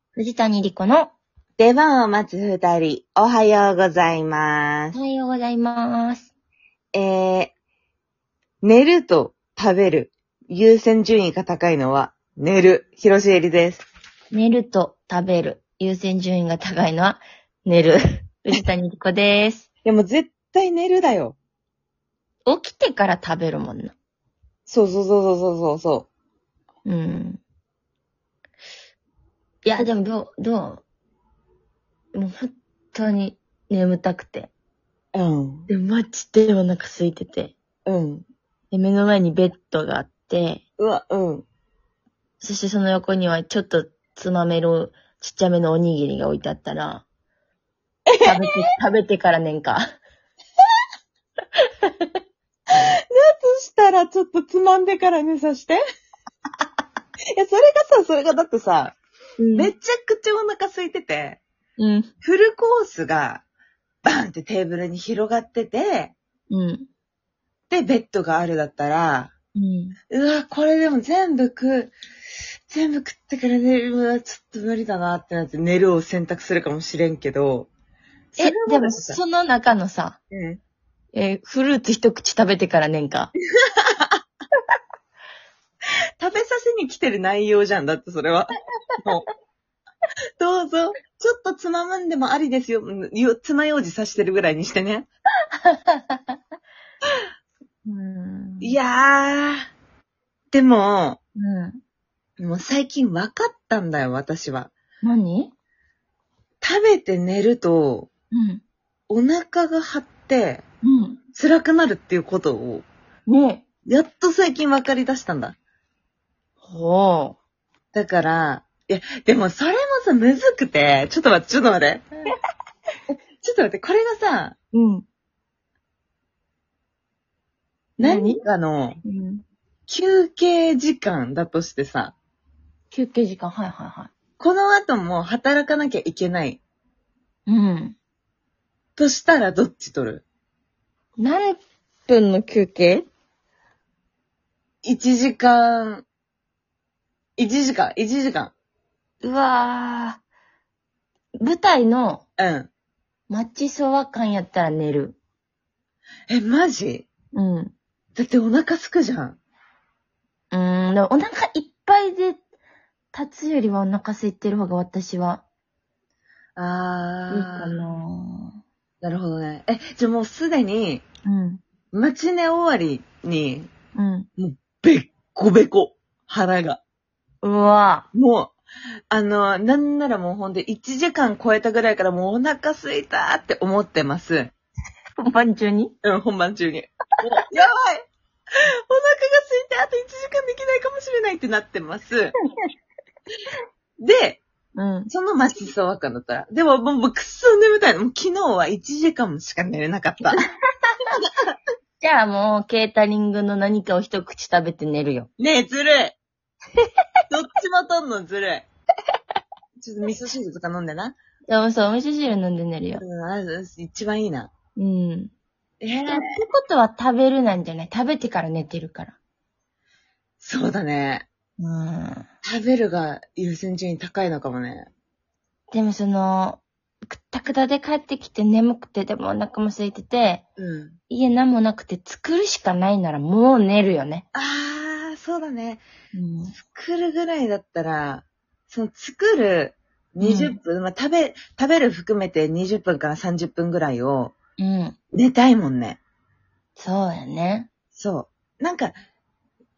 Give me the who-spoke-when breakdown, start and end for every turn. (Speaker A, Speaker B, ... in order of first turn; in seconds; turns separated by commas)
Speaker A: 0.2-1.1, Speaker B: 1.6-5.0, Speaker A: 4.9-6.3, Speaker B: 6.9-7.5, Speaker B: 8.6-13.9, Speaker A: 14.3-19.7, Speaker B: 19.9-21.4, Speaker A: 22.5-23.9, Speaker B: 24.7-26.1, Speaker A: 26.9-27.4, Speaker A: 29.6-30.8, Speaker A: 32.1-34.5, Speaker B: 35.1-35.7, Speaker A: 35.7-37.5, Speaker B: 37.9-38.2, Speaker A: 38.7-40.6, Speaker B: 40.8-41.5, Speaker A: 42.4-47.0, Speaker A: 48.2-49.9, Speaker A: 51.6-52.1, Speaker B: 52.7-55.8, Speaker B: 57.3-59.0, Speaker A: 59.4-59.7, Speaker B: 59.5-61.4, Speaker A: 61.8-62.1, Speaker B: 62.2-63.4, Speaker B: 64.1-66.2, Speaker A: 66.5-66.9, Speaker B: 67.7-69.3, Speaker A: 69.6-70.0, Speaker B: 70.1-72.0, Speaker B: 72.7-77.7, Speaker B: 78.3-79.2, Speaker A: 78.4-80.2, Speaker B: 80.3-80.6, Speaker A: 81.1-83.3, Speaker B: 83.6-84.2, Speaker B: 86.2-89.3, Speaker B: 90.4-95.1, Speaker A: 95.6-96.4, Speaker A: 97.8-98.8, Speaker B: 98.6-99.7, Speaker B: 100.5-101.2, Speaker A: 101.4-101.8, Speaker B: 102.4-104.7, Speaker A: 105.0-105.5, Speaker B: 106.6-108.1, Speaker A: 108.3-108.6, Speaker B: 109.1-110.6, Speaker A: 110.8-111.2, Speaker B: 111.3-112.9, Speaker A: 113.3-113.6, Speaker B: 113.9-115.6, Speaker A: 116.6-117.4, Speaker B: 117.9-122.1, Speaker B: 123.4-124.5, Speaker A: 124.7-125.1, Speaker A: 128.0-128.4, Speaker B: 128.0-129.0, Speaker A: 129.1-129.4, Speaker B: 129.9-132.1, Speaker A: 132.9-134.1, Speaker B: 134.4-136.6, Speaker A: 137.5-138.0, Speaker B: 139.0-140.2, Speaker A: 141.2-143.1, Speaker B: 144.8-146.1, Speaker B: 147.4-148.5, Speaker A: 149.2-150.2, Speaker A: 151.4-152.2, Speaker B: 152.4-152.7, Speaker A: 153.3-155.2, Speaker B: 156.3-157.1, Speaker A: 157.3-157.7, Speaker B: 158.2-159.4, Speaker A: 160.5-162.4, Speaker A: 163.1-165.4, Speaker B: 166.6-167.8, Speaker A: 167.3-168.6, Speaker B: 169.0-171.1, Speaker A: 171.3-171.6, Speaker B: 171.9-173.7, Speaker A: 173.9-174.3, Speaker B: 174.4-176.8, Speaker A: 177.4-178.1, Speaker B: 178.1-178.6, Speaker B: 179.1-184.5, Speaker A: 185.2-185.9, Speaker B: 186.0-188.1, Speaker B: 188.9-192.3, Speaker B: 194.0-194.4, Speaker A: 194.8-195.1, Speaker B: 195.1-200.4, Speaker A: 202.0-205.3, Speaker B: 205.4-206.2, Speaker B: 207.3-208.7, Speaker B: 209.8-211.2, Speaker A: 211.5-213.0, Speaker B: 213.0-214.5, Speaker A: 214.8-215.3, Speaker B: 215.8-216.4, Speaker A: 216.1-219.2, Speaker B: 220.4-221.3, Speaker A: 221.6-222.3, Speaker B: 222.4-224.9, Speaker A: 225.7-230.4, Speaker B: 230.6-231.0, Speaker A: 231.1-234.2, Speaker B: 234.3-235.8, Speaker A: 236.1-236.6, Speaker B: 236.6-244.3, Speaker A: 240.2-240.6, Speaker A: 244.6-244.9, Speaker B: 245.1-246.0, Speaker A: 246.8-247.7, Speaker B: 247.9-248.9